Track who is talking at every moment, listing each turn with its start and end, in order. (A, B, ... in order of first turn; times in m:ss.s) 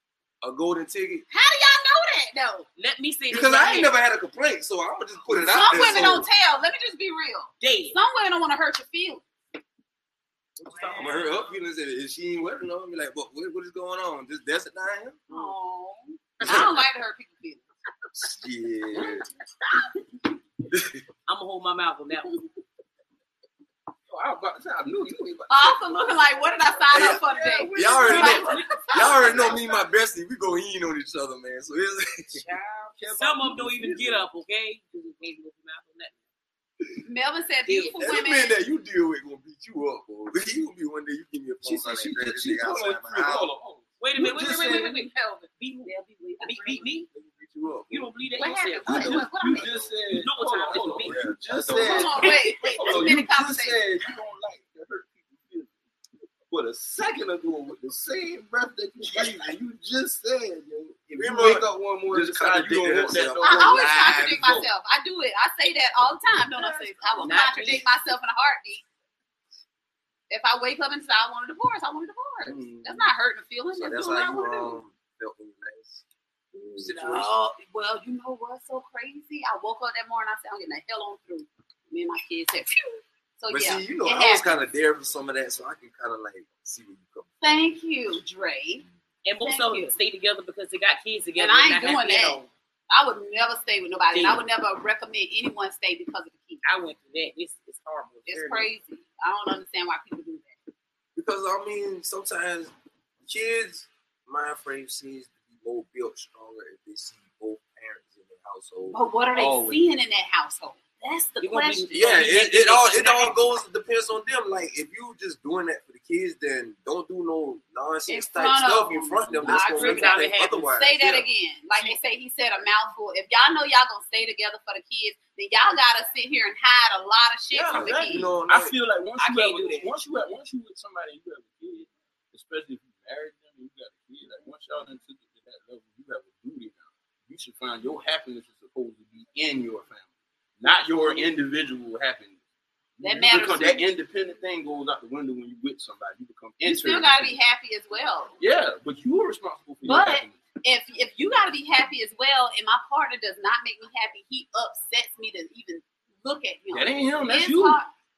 0:00.4-0:01.2 A
0:01.3-0:02.7 B
0:02.8-0:03.9 C
0:03.3-0:06.3 A
0:05.3-0:09.2 B
0:05.8-0:06.1 D
0:07.6-0:08.0 C
0:10.6-0:11.3 C
0:10.9-0:15.2 A
0:15.3-0:17.6 B
0:16.4-0:16.7 A
0:18.1-0:19.2 A
0:19.0-0:19.2 D
0:20.7-0:21.0 A
0:21.3-0:22.3 C
0:24.1-0:28.6 D
0:25.5-0:29.6 B
0:26.9-0:32.4 A
0:28.0-0:29.5 C
0:32.3-0:36.2 C
0:32.9-0:34.2 D
0:37.0-0:38.6 B
0:37.6-0:38.0 C
0:38.0-0:43.5 A
0:41.6-0:45.0 D
0:44.0-0:45.1 C
0:44.2-0:46.9 B
0:45.6-0:47.1 C
0:47.1-0:48.1 A
0:47.9-0:49.2 C
0:48.4-0:49.8 B
0:48.8-0:55.7 D
0:48.9-0:49.9 A
0:50.1-0:51.2 C
0:51.0-0:52.3 A
0:51.7-0:53.8 B
0:56.5-1:04.6 D
1:01.2-1:04.6 A
1:03.4-1:08.8 B
1:06.5-1:07.4 D
1:07.2-1:07.8 C
1:10.3-1:14.8 B
1:12.4-1:13.1 D
1:13.7-1:16.0 A
1:16.5-1:24.6 B
1:16.8-1:17.3 A
1:23.5-1:27.6 A
1:27.4-1:28.8 B
1:29.2-1:32.5 C
1:29.4-1:29.9 B
1:31.4-1:36.6 B
1:34.1-1:34.4 C
1:36.6-1:38.7 C
1:38.3-1:40.6 B
1:41.2-1:42.7 A
1:43.2-1:49.0 A
1:48.9-1:51.9 B
1:49.3-1:49.8 D
1:51.4-1:53.3 C
1:51.9-2:01.3 A
1:58.1-2:08.3 B
1:59.7-2:00.7 C
2:07.5-2:20.1 D
2:07.6-2:08.7 A
2:09.2-2:09.9 C
2:20.6-2:22.4 D
2:23.0-2:27.4 D
2:23.0-2:23.9 B
2:26.6-2:28.4 B
2:28.4-2:30.4 D
2:29.8-2:37.9 B
2:36.7-2:37.8 D